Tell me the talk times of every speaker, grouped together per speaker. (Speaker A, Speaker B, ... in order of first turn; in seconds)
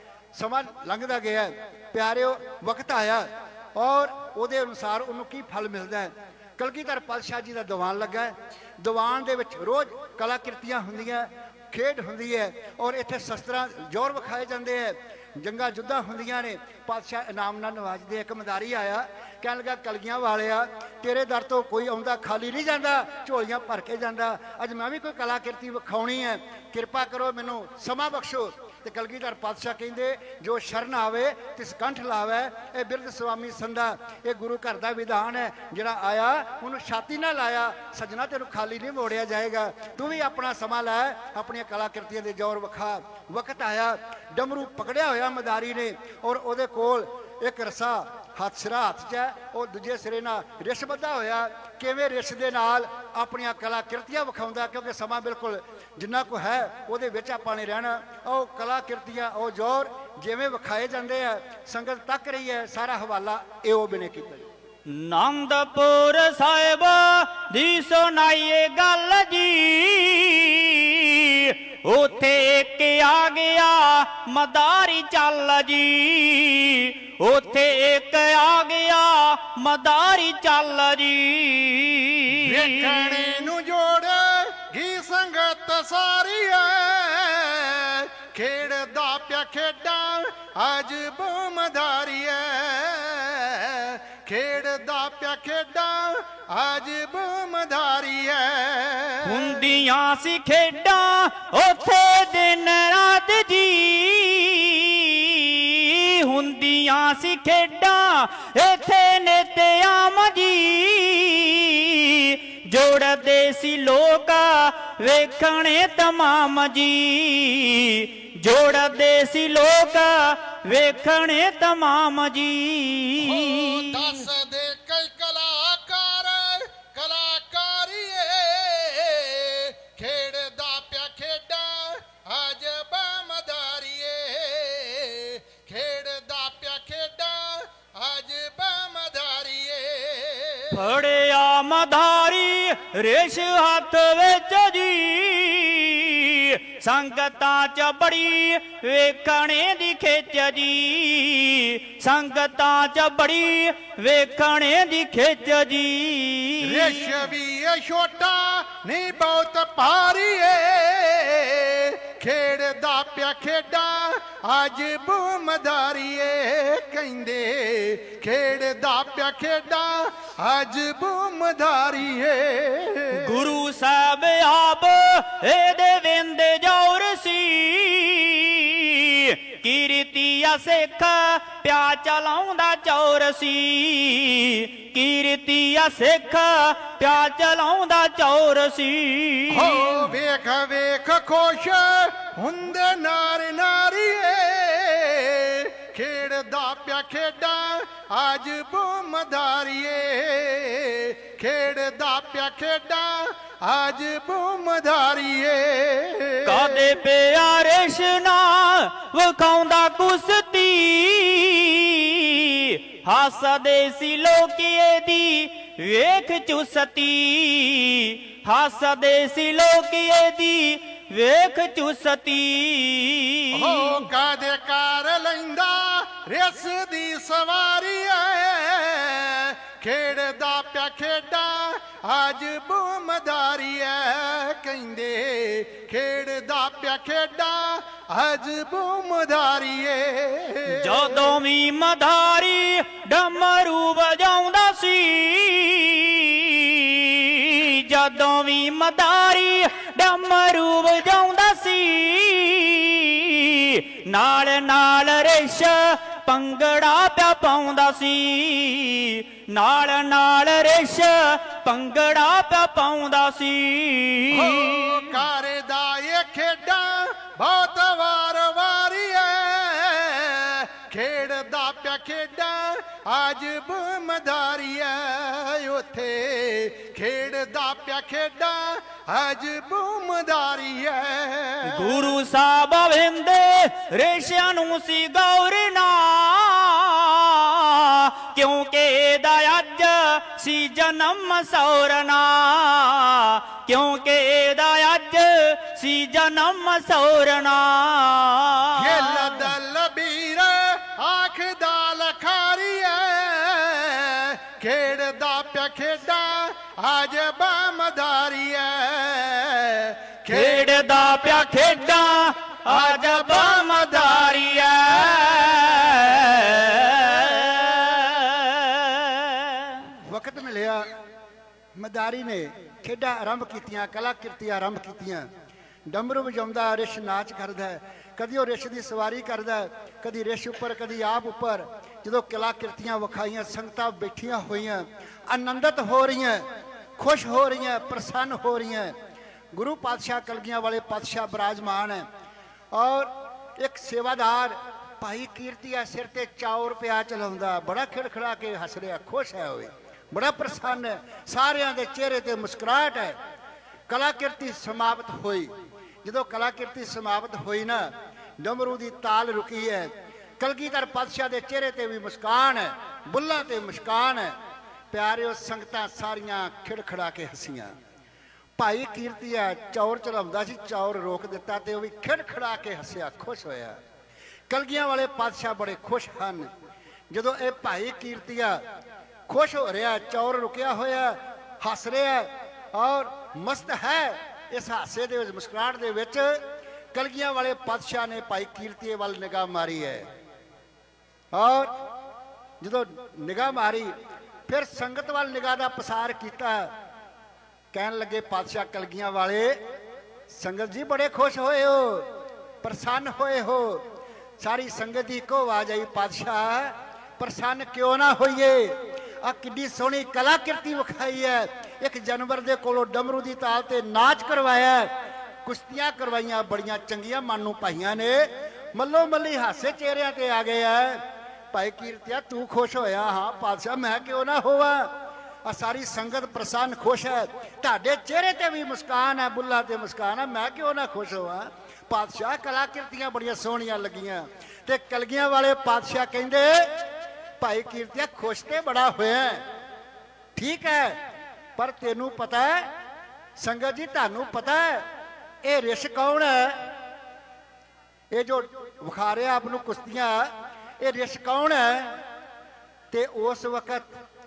Speaker A: 0.3-64.5, 320.0-320.9, 321.7-325.3, 325.9-336.4, 337.0-338.9, 339.5-342.1, 342.7-353.2, 353.9-355.5, 356.0-357.9, 358.4-364.3, 364.9-367.7, 368.6-373.8, 374.5-376.5, 377.1-378.6, 379.3-390.1, 391.3-391.7, 392.6-393.9, 394.5-396.7, 397.7-399.6, 400.3-403.8, 404.4-414.9, 415.4-424.9, 425.4-436.7, 437.4-439.4, 440.3-441.0, 441.6-442.7, 443.4-444.8, 445.4-446.7, 448.1-452.0, 452.9-454.0
Speaker B: 64.9-83.5, 99.2-124.2, 140.7-157.1, 173.1-190.0, 206.4-224.0, 240.7-265.1, 281.6-299.5, 310.3-319.9
Speaker C: 82.3-99.6, 123.2-140.7, 156.6-173.4, 189.5-206.8, 223.5-241.3, 264.3-282.1, 298.8-310.6, 312.7-314.3